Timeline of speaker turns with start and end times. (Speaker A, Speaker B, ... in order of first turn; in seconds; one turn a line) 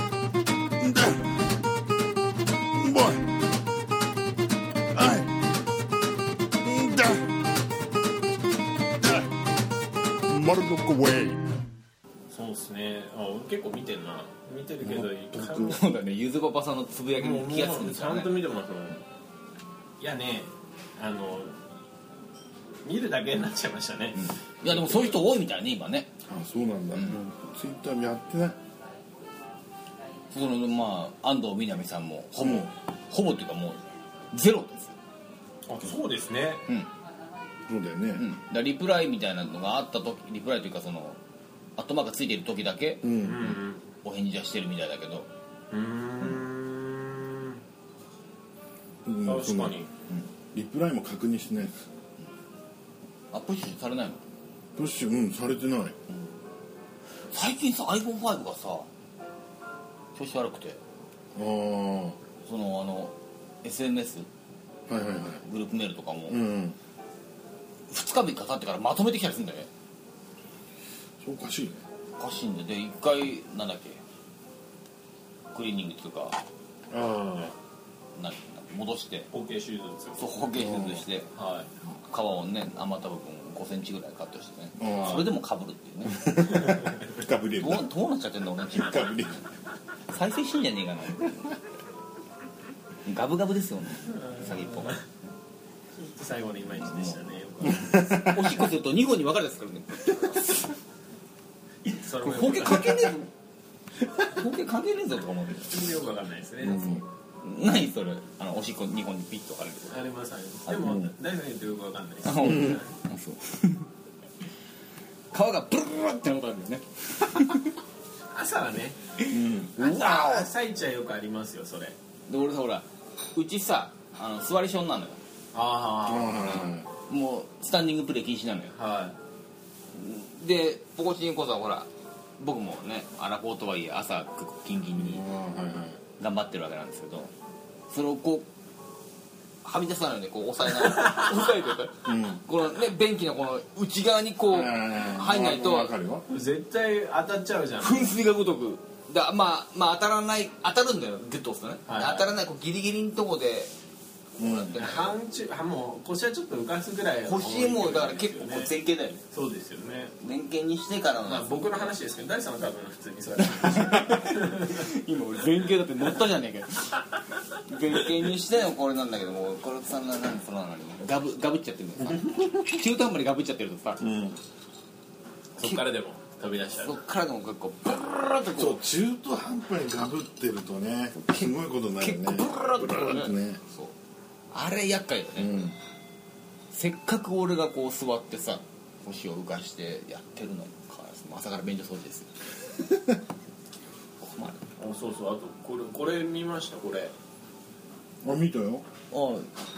Speaker A: 0.8-1.5
Speaker A: 2.7-3.3
Speaker A: 4.9-5.3
Speaker A: 6.6-7.3
Speaker A: 9.0-9.3
Speaker A: 10.2-11.5
Speaker B: 12.3-15.8
Speaker A: 14.9-15.8
Speaker C: 15.6-18.4
Speaker B: 17.2-19.0
Speaker B: 20.0-21.6
Speaker B: 22.8-25.0
Speaker C: 24.2-26.1
Speaker A: 26.2-28.6
Speaker C: 30.3-35.0
Speaker A: 32.4-32.7
Speaker B: 35.7-36.7
Speaker A: 37.6-38.3
Speaker C: 38.2-41.2
Speaker C: 41.8-43.0
Speaker A: 43.0-43.5
Speaker B: 43.2-43.9
Speaker C: 44.0-45.3
Speaker B: 45.7-47.6
Speaker A: 49.0-49.8
Speaker B: 49.2-49.9
Speaker A: 50.5-51.8
Speaker C: 53.3-54.2
Speaker A: 54.8-56.0
Speaker C: 57.3-58.9
Speaker C: 60.1-60.8
Speaker A: 61.3-62.2
Speaker C: 62.4-64.3
Speaker A: 64.9-65.4
Speaker C: 65.4-66.4
Speaker A: 66.3-66.8
Speaker C: 67.9-69.7
Speaker A: 71.2-71.8
Speaker C: 72.2-74.0
Speaker C: 75.5-76.4
Speaker A: 76.9-77.5
Speaker C: 78.2-79.3
Speaker B: 79.3-80.2
Speaker C: 80.2-81.3
Speaker A: 80.5-81.0
Speaker B: 81.3-81.7
Speaker C: 82.0-86.3
Speaker A: 84.8-85.3
Speaker A: 86.0-87.9
Speaker B: 86.6-87.0
Speaker C: 87.6-89.3
Speaker A: 88.8-89.4
Speaker C: 90.1-91.5
Speaker C: 93.0-95.1
Speaker B: 94.2-95.0
Speaker B: 96.0-98.3
Speaker C: 96.8-97.2
Speaker A: 97.7-98.6
Speaker C: 98.2-100.8
Speaker B: 101.9-103.1
Speaker C: 102.2-103.3
Speaker C: 104.2-105.9
Speaker B: 105.7-107.0
Speaker A: 106.6-107.0
Speaker C: 107.4-110.0
Speaker B: 109.9-112.9
Speaker C: 110.7-111.0
Speaker A: 110.8-111.1
Speaker C: 112.2-113.9
Speaker C: 115.3-117.8
Speaker B: 118.3-119.0
Speaker C: 119.2-120.5
Speaker A: 119.3-119.7
Speaker B: 119.7-122.0
Speaker C: 122.3-125.2
Speaker B: 125.5-126.7
Speaker A: 126.0-126.9
Speaker C: 127.1-128.7
Speaker B: 128.7-129.2
Speaker C: 129.9-131.9
Speaker C: 132.4-135.2
Speaker A: 135.0-136.0
Speaker C: 136.2-137.3
Speaker C: 137.9-138.5
Speaker C: 139.6-145.9
Speaker A: 142.0-142.4
Speaker A: 144.5-146.2
Speaker B: 146.3-148.1
Speaker C: 147.8-153.7
Speaker B: 151.8-152.3
Speaker A: 154.4-154.8
Speaker C: 154.4-155.2
Speaker B: 154.7-158.7
Speaker C: 157.2-159.2
Speaker B: 159.3-160.1
Speaker C: 160.2-161.9
Speaker B: 161.2-164.9
Speaker C: 163.4-167.0
Speaker C: 167.7-174.0
Speaker A: 174.0-174.4
Speaker B: 175.6-177.0
Speaker C: 176.8-178.8
Speaker A: 178.5-183.6
Speaker C: 181.2-183.9
Speaker C: 184.5-185.7
Speaker A: 185.4-185.7
Speaker C: 186.7-192.3
Speaker C: 194.2-194.6
Speaker B: 194.8-197.1
Speaker A: 198.2-198.8
Speaker C: 199.1-199.5